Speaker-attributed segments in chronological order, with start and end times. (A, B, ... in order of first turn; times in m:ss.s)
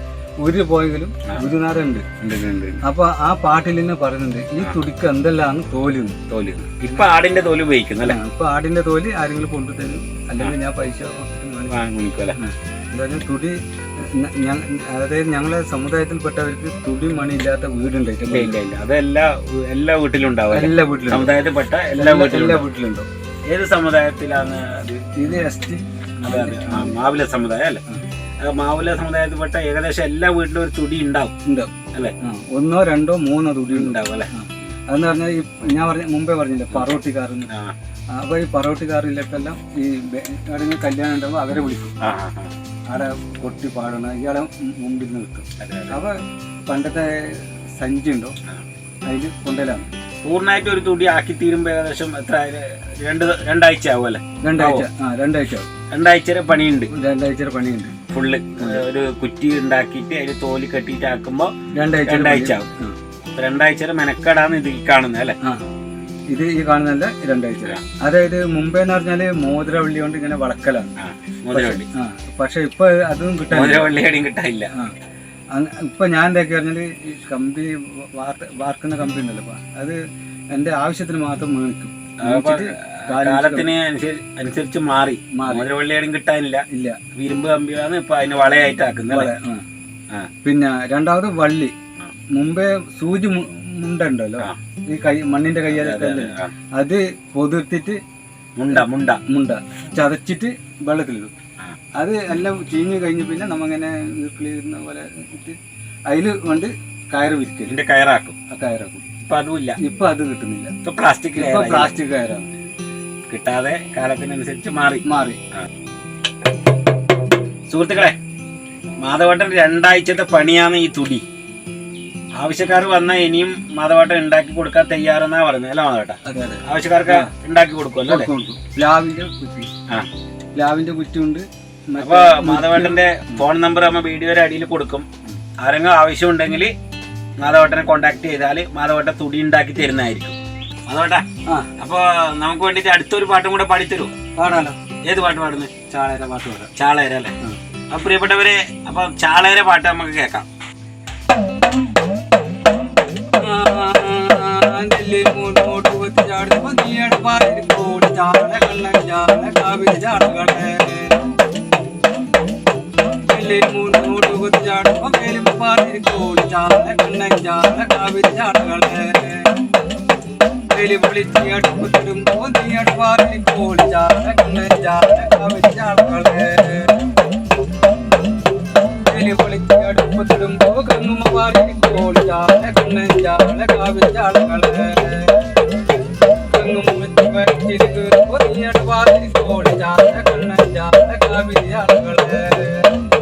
0:00.4-0:02.1 A
0:02.2-0:02.8 B
0:02.8-0:06.2 A
0:06.3-0:08.2 B
0:08.0-0:11.8 A
0:11.7-0:12.4 B
0:12.4-0:18.6 A
0:18.3-0:22.7 B
0:20.5-0:21.3 A
0:21.9-0:23.1 A
0:23.5-0:25.0 B
0:25.2-0:27.0 A
0:26.2-0:27.8 B
0:28.4-0:31.3 B
0:31.5-0:37.5 A
0:33.7-0:34.3 B
0:36.7-0:37.0 B
0:37.5-0:37.8 B
0:38.2-0:42.0 A
0:42.0-0:42.5 B
0:42.9-0:46.2 A
0:45.6-0:46.0 B
0:46.7-0:48.4 A
0:49.1-0:49.9 A
0:50.2-0:54.9 B
0:54.4-0:55.7 A
0:55.9-0:56.9 B
0:56.9-0:58.0 A
0:58.1-1:02.7 B
1:01.7-1:03.0 A
1:03.3-1:05.4 B
1:06.3-1:10.9 A
1:11.0-1:11.9 B
1:11.5-1:13.9 A
1:13.5-1:14.7 B
1:15.5-1:20.0 A
1:20.5-1:23.7 A
1:22.2-1:29.3 B
1:25.3-1:25.7 A
1:26.7-1:27.0 A
1:29.1-1:29.6 A
1:30.4-1:31.7 A
1:32.3-1:38.0 A
1:35.7-1:36.5 B
1:38.6-1:39.2 B
1:38.7-1:41.3 A
1:42.0-1:45.6 A
1:46.1-1:47.8 A
1:47.7-1:48.4 B
1:48.5-1:49.1 A
1:49.2-1:49.8 B
1:49.8-1:50.7 A
1:50.8-1:51.9 B
1:51.4-1:52.5 A
1:53.3-1:55.0 B
1:55.0-1:55.4 A
1:57.7-1:58.2 B
1:59.0-2:01.2 B
2:02.4-2:08.3 B
2:06.3-2:07.3 A
2:08.1-2:09.7 A
2:10.6-2:13.4 A
2:12.0-2:15.1 B
2:15.6-2:16.7 B
2:17.4-2:20.4 B
2:20.9-2:21.2 B
2:21.8-2:24.1 B
2:24.4-2:24.8 A
2:25.0-2:25.7 B
2:25.9-2:26.7 A
2:26.8-2:27.3 B
2:27.9-2:30.5 B
2:33.4-2:41.2 A
2:43.3-2:49.6 A
2:50.7-2:57.1 A
2:59.1-3:05.5 A
3:06.5-3:12.9 A